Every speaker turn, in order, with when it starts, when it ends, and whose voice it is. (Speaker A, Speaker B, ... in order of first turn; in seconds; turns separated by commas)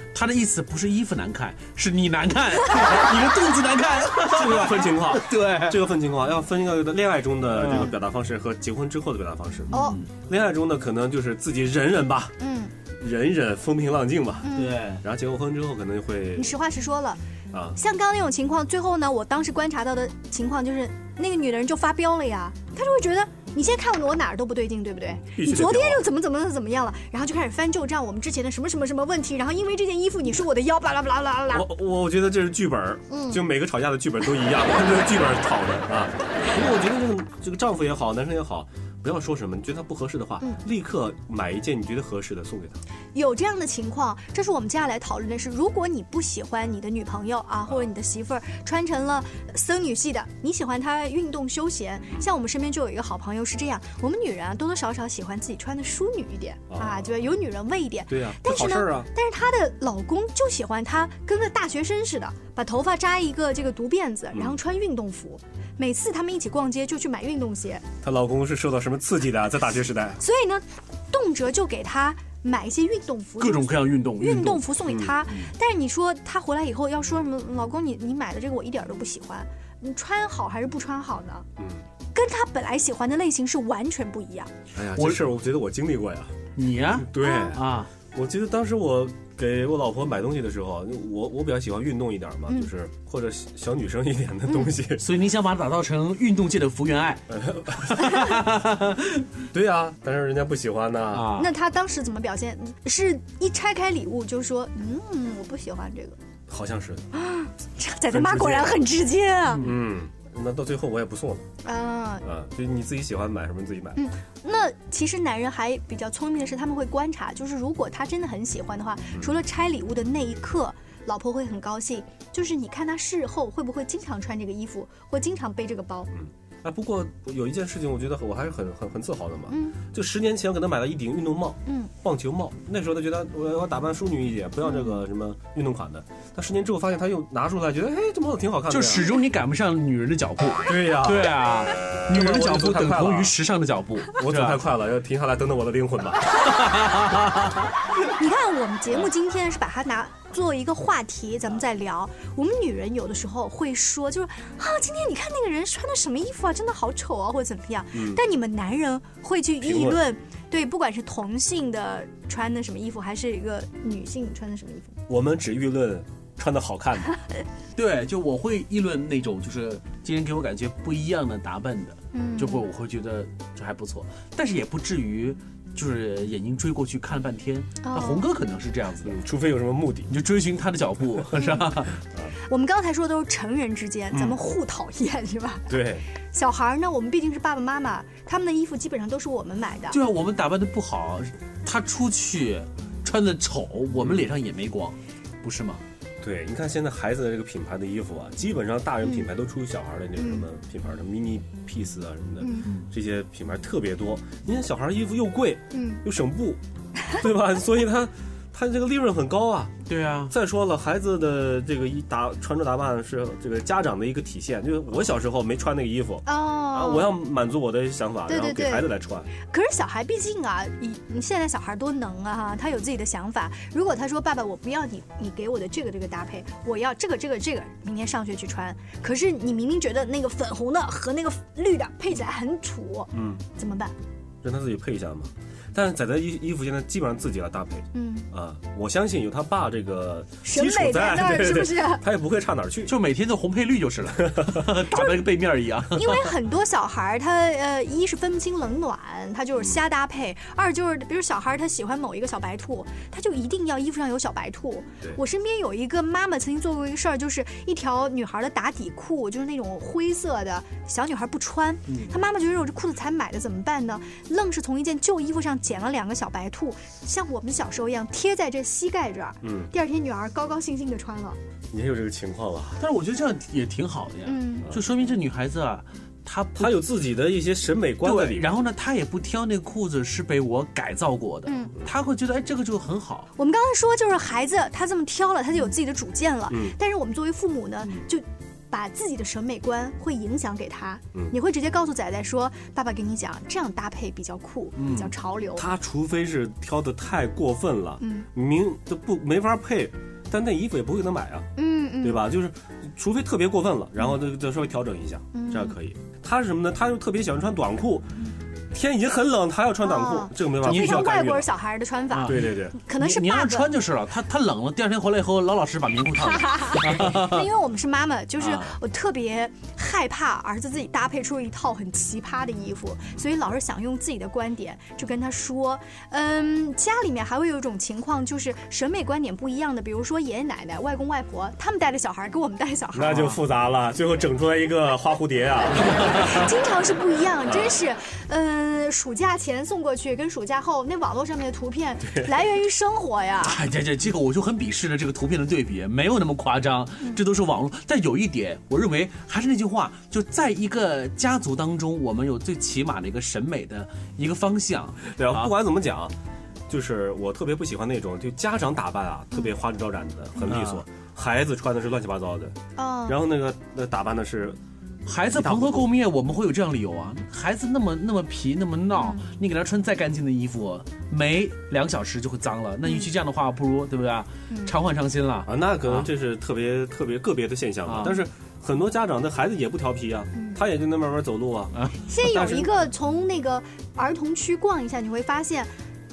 Speaker A: 0.1-5.8, Speaker B: 4.2-12.4, Speaker A: 7.5-7.9, Speaker A: 9.7-10.1, Speaker C: 9.7-10.0, Speaker C: 12.4-12.7, Speaker B: 12.9-16.6, Speaker C: 14.4-14.9, Speaker A: 14.6-15.0, Speaker C: 16.4-17.2, Speaker B: 17.5-17.8, Speaker C: 17.8-31.7, Speaker B: 25.2-26.1, Speaker B: 31.5-42.8, Speaker C: 33.1-33.4, Speaker C: 40.4-40.6, Speaker C: 43.1-67.8, Speaker B: 56.7-57.1, Speaker B: 58.1-59.1, Speaker B: 68.0-70.2, Speaker C: 70.2-81.5, Speaker A: 73.4-74.7, Speaker B: 74.9-75.2, Speaker B: 81.6-81.8, Speaker C: 82.1-84.5, Speaker B: 84.8-86.4, Speaker A: 84.9-85.2, Speaker A: 86.6-87.9, Speaker B: 87.0-87.6, Speaker C: 87.2-87.5, Speaker B: 88.1-95.0, Speaker A: 95.0-97.2, Speaker B: 97.3-98.2, Speaker A: 97.9-99.3, Speaker B: 99.5-101.3, Speaker A: 101.1-101.5, Speaker C: 101.3-106.2, Speaker B: 106.5-107.1, Speaker C: 107.1-109.7, Speaker B: 108.1-108.8, Speaker B: 109.6-111.5, Speaker C: 111.7-112.2, Speaker B: 112.2-114.0, Speaker C: 114.0-126.1, Speaker B: 126.1-139.1, Speaker C: 129.5-129.8, Speaker C: 131.7-131.9, Speaker C: 134.7-135.0, Speaker A: 138.7-144.6, Speaker B: 140.7-141.4, Speaker B: 142.1-143.4, Speaker B: 144.2-146.4, Speaker A: 146.4-147.5, Speaker C: 148.2-165.0, Speaker B: 157.9-158.2, Speaker B: 159.6-160.0, Speaker B: 165.1-167.1, Speaker A: 167.8-179.2, Speaker C: 172.1-172.7, Speaker C: 177.8-178.3, Speaker B: 179.1-180.1, Speaker A: 180.1-182.0, Speaker C: 182.5-185.7, Speaker B: 184.1-184.4, Speaker B: 185.7-186.1, Speaker C: 186.3-190.0, Speaker A: 189.9-195.8, Speaker B: 194.0-194.3, Speaker B: 196.2-206.6, Speaker C: 200.2-200.4, Speaker C: 202.4-202.7, Speaker C: 205.7-206.0, Speaker B: 207.1-219.3, Speaker A: 209.9-210.3, Speaker C: 216.3-217.2, Speaker C: 218.3-233.9, Speaker B: 233.1-233.4, Speaker B: 234.4-242.9, Speaker C: 237.9-238.3, Speaker C: 240.4-242.0, Speaker A: 242.9-246.3, Speaker B: 244.3-244.6, Speaker C: 245.9-271.4, Speaker A: 261.9-262.2, Speaker B: 269.4-269.7, Speaker B: 271.7-272.8, Speaker A: 272.8-276.8, Speaker C: 274.2-274.7, Speaker B: 276.6-278.5, Speaker A: 278.0-283.3, Speaker C: 281.4-281.8, Speaker C: 283.4-295.6, Speaker B: 286.5-286.8, Speaker A: 294.8-295.1, Speaker B: 295.6-301.5, Speaker C: 298.0-298.3, Speaker C: 301.6-302.3, Speaker B: 302.0-308.1, Speaker C: 305.3-305.8, Speaker B: 308.7-311.5, Speaker C: 309.8-313.8, Speaker A: 310.6-311.1, Speaker A: 312.1-317.5, Speaker B: 312.3-312.8, Speaker C: 316.2-333.2, Speaker A: 318.4-318.8, Speaker B: 332.9-336.4, Speaker A: 333.1-333.4, Speaker C: 336.1-343.6, Speaker B: 337.5-337.7, Speaker A: 343.4-355.5, Speaker B: 355.1-356.1, Speaker B: 356.7-362.6, Speaker A: 360.5-360.8, Speaker C: 362.8-363.2, Speaker B: 363.1-364.6, Speaker A: 365.1-376.1, Speaker B: 365.3-365.9, Speaker C: 368.9-369.3, Speaker C: 372.8-373.1, Speaker C: 374.5-374.8, Speaker B: 375.5-382.8, Speaker A: 377.9-378.2, Speaker C: 380.4-380.6, Speaker C: 382.1-385.7